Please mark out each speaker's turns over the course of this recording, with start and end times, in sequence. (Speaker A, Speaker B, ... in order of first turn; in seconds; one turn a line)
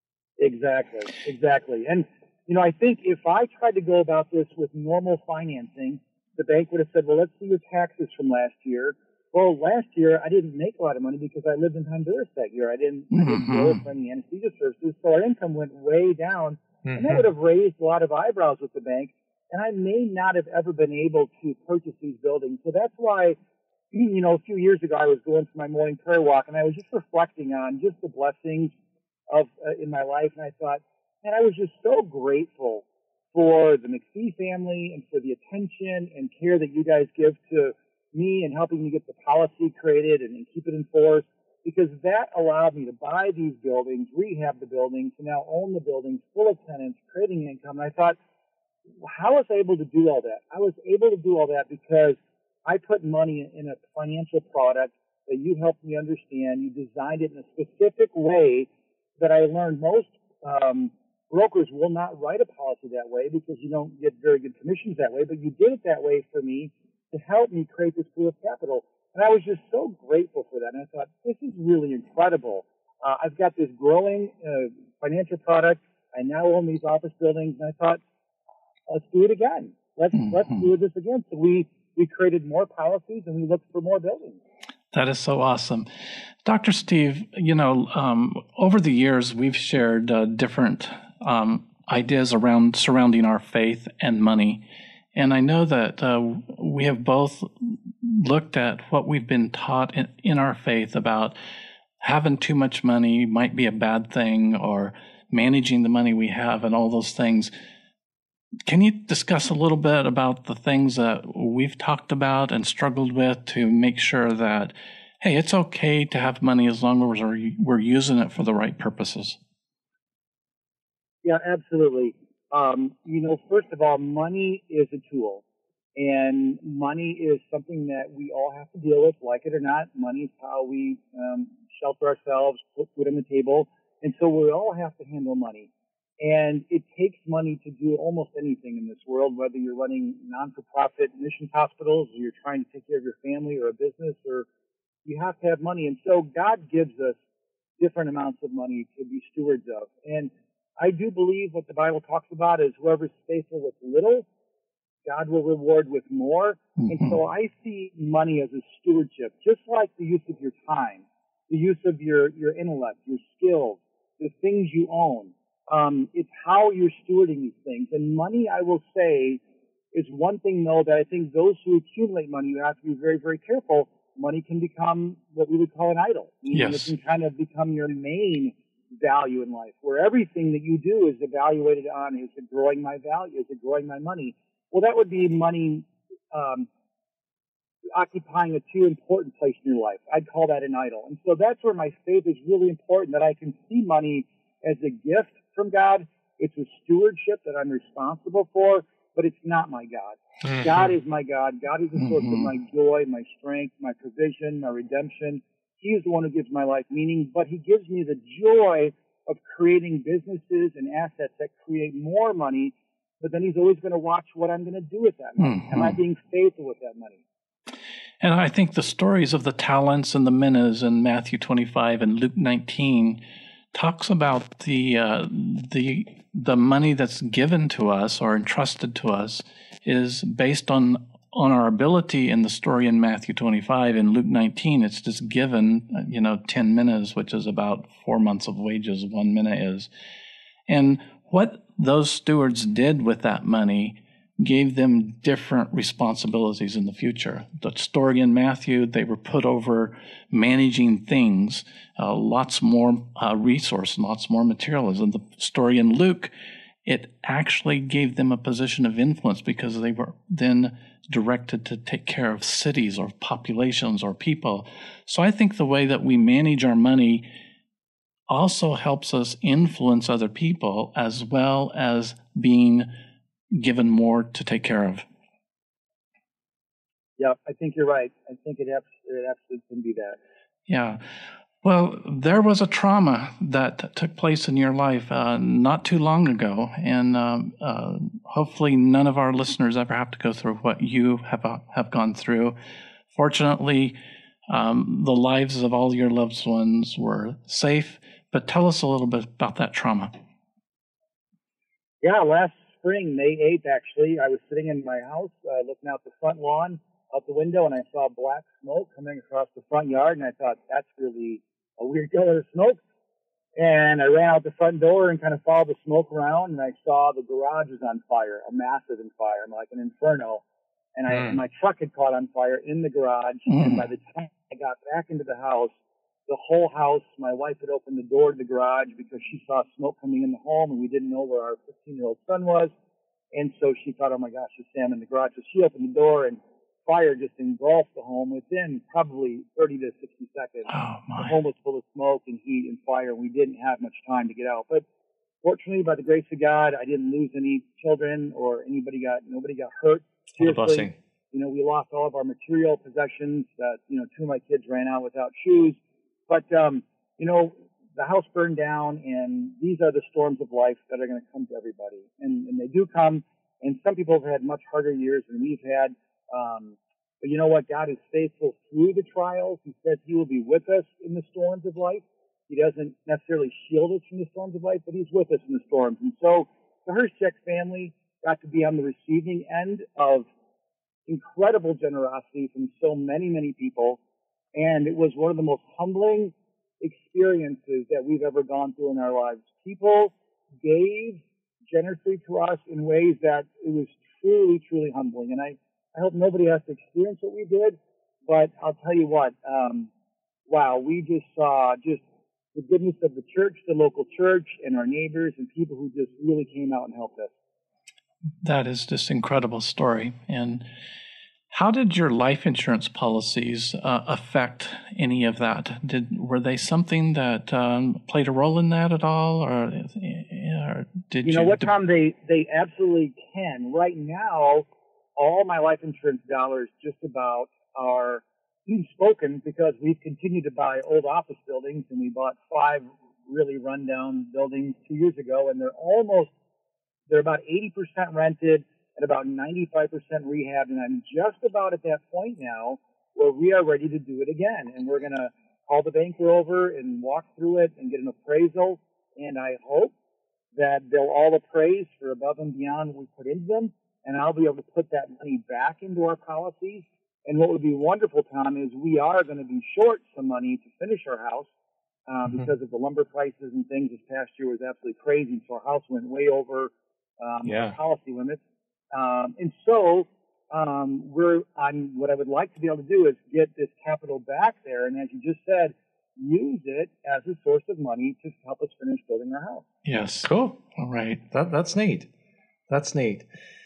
Speaker A: 0.4-23.4
Speaker B: 13.1-13.8
Speaker C: 16.9-17.2
Speaker A: 23.9-28.7
Speaker A: 29.3-48.2
Speaker A: 49.0-78.0
Speaker A: 78.9-84.4
Speaker B: 80.2-80.6
Speaker B: 84.9-85.9
Speaker B: 86.4-94.6
Speaker B: 95.1-101.3
Speaker B: 102.0-107.5
Speaker B: 108.7-119.4
Speaker A: 121.2-125.4
Speaker A: 126.0-135.7
Speaker A: 136.2-144.5
Speaker A: 145.1-147.2
Speaker A: 147.8-154.3
Speaker A: 155.1-169.4
Speaker A: 169.9-186.7
Speaker B: 176.5-176.9
Speaker A: 187.9-217.2
Speaker C: 200.4-200.8
Speaker B: 202.0-202.5
Speaker B: 215.4-216.0
Speaker B: 218.2-223.2
Speaker B: 223.7-239.9
Speaker B: 240.7-256.3
Speaker B: 256.9-267.3
Speaker B: 268.3-272.9
Speaker B: 273.5-275.1
Speaker A: 277.2-280.2
Speaker B: 280.7-281.0
Speaker B: 281.6-292.6
Speaker B: 293.1-294.0
Speaker B: 294.5-300.1
Speaker A: 302.0-312.8
Speaker A: 313.6-320.4
Speaker A: 321.0-325.7
Speaker B: 323.5-323.8
Speaker A: 326.3-332.7
Speaker A: 333.3-344.9
Speaker B: 340.7-341.3
Speaker A: 345.4-355.8
Speaker C: 350.4-350.9
Speaker A: 356.3-380.3
Speaker A: 381.1-384.0
Speaker A: 384.6-399.9
Speaker A: 400.5-402.0
Speaker A: 402.6-407.3
Speaker B: 408.4-410.6
Speaker B: 411.5-421.7
Speaker A: 421.2-436.3
Speaker A: 437.1-449.9
Speaker A: 450.6-461.5
Speaker A: 462.1-468.4
Speaker C: 467.4-467.8
Speaker A: 468.9-479.6
Speaker B: 479.9-481.2
Speaker C: 480.2-480.6
Speaker C: 481.3-482.1
Speaker C: 482.7-483.3